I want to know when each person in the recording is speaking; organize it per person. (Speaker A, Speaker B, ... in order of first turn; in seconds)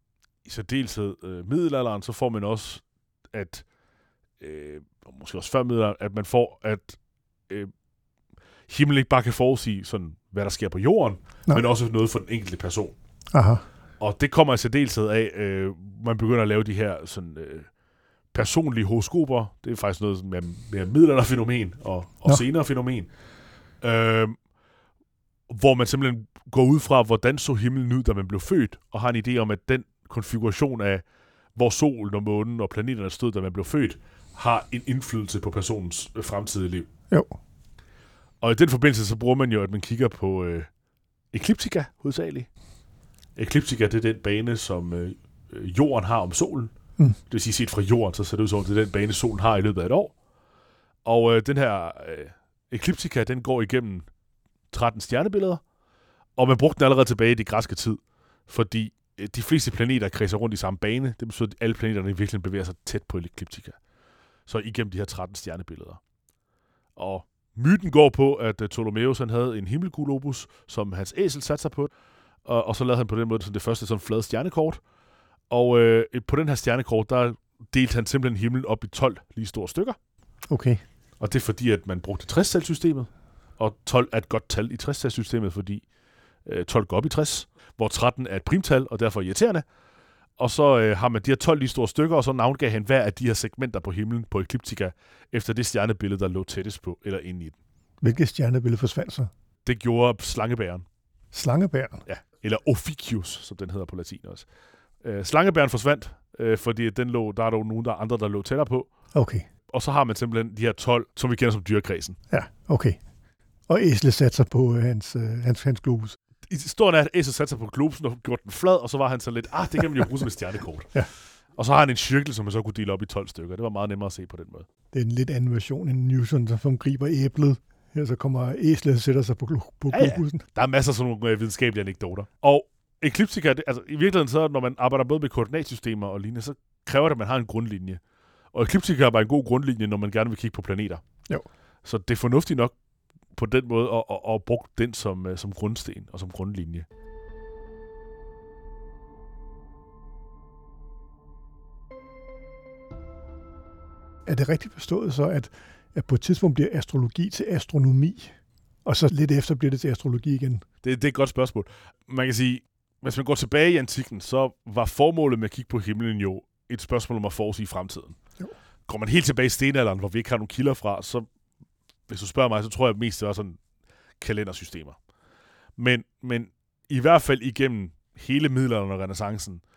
Speaker A: 0.5-3.6, 4.4-7.0, 8.7-12.9, 14.0-17.7, 18.3-23.1, 23.8-24.4, 25.5-31.0, 31.6-36.9, 38.4-40.7, 41.3-42.5, 43.4-46.7, 47.3-50.1, 51.0-54.1, 54.7-55.6, 56.4-63.8, 64.5-66.0, 67.0-71.9, 72.5-74.8, 75.5-80.0, 81.2-85.8, 86.5-89.7, 90.4-97.6, 99.7-100.9, 102.1-104.5, 105.0-108.9, 109.7-112.2, 116.5-121.0, 121.5-124.7, 129.9-138.0, 138.5-141.0, 141.8-142.7, 143.3-146.9, 160.8-168.2, 168.9-171.3, 172.1-173.6, 174.2-175.0, 175.8-179.6
Speaker B: 13.3-13.7, 80.5-80.8, 98.0-99.3, 101.3-102.0, 109.1-109.5, 112.3-113.0, 113.7-116.2, 124.9-130.4, 154.3-160.7